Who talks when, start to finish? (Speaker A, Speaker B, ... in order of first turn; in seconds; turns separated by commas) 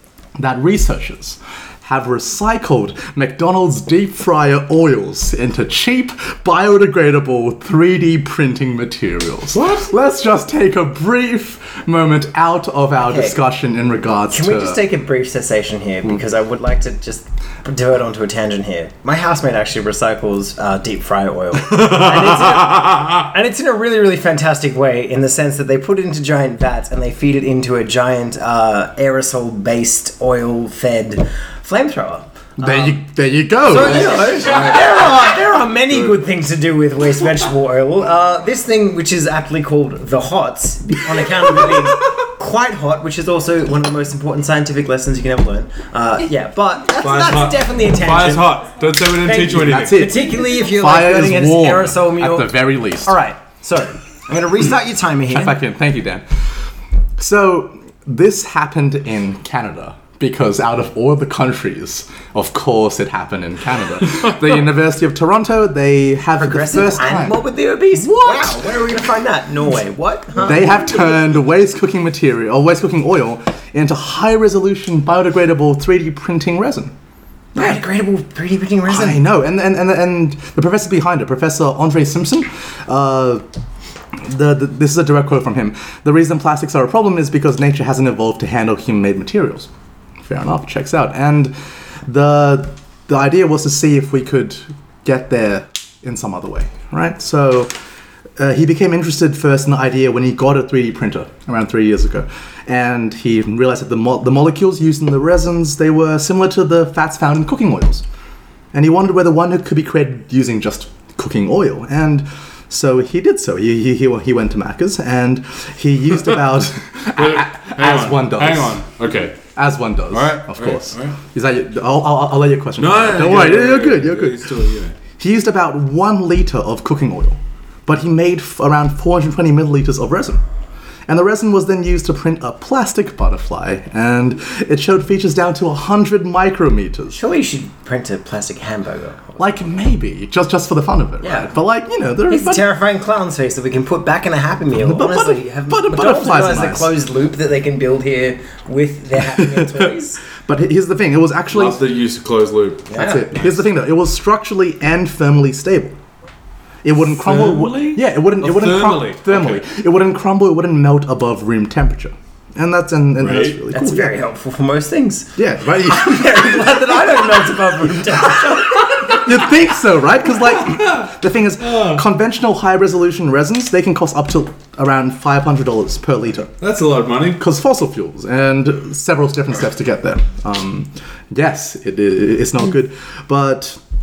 Speaker A: 0.4-14.8, Speaker B: 13.0-13.4, Speaker B: 14.3-33.0, Speaker C: 22.6-23.1, Speaker A: 32.6-34.6, Speaker B: 33.6-48.5, Speaker C: 34.0-34.9, Speaker C: 47.0-50.1, Speaker B: 49.2-55.6, Speaker A: 49.5-53.1, Speaker A: 55.3-56.5, Speaker A: 57.2-67.4, Speaker B: 66.4-70.8, Speaker A: 67.9-68.7, Speaker A: 70.4-76.9, Speaker B: 77.5-79.2, Speaker A: 78.9-83.4, Speaker A: 84.2-89.7, Speaker A: 90.2-91.5, Speaker A: 92.0-97.7, Speaker A: 98.4-108.0, Speaker A: 108.7-118.8, Speaker C: 117.1-119.5, Speaker A: 119.5-124.5, Speaker C: 120.1-121.2, Speaker C: 122.8-124.9, Speaker A: 125.2-130.4, Speaker A: 131.1-137.2, Speaker B: 137.1-139.5, Speaker A: 139.4-142.6, Speaker B: 141.2-141.5, Speaker B: 142.3-150.2, Speaker A: 144.7-146.9, Speaker A: 149.3-149.9, Speaker A: 150.4-151.8, Speaker C: 151.5-152.9, Speaker B: 152.9-153.2, Speaker A: 152.9-156.0, Speaker A: 156.8-164.2, Speaker C: 157.1-159.6, Speaker C: 163.2-163.6, Speaker B: 163.7-169.2, Speaker A: 165.3-166.7, Speaker A: 169.1-176.5, Speaker C: 171.7-172.0, Speaker C: 176.6-177.4, Speaker A: 177.3-183.8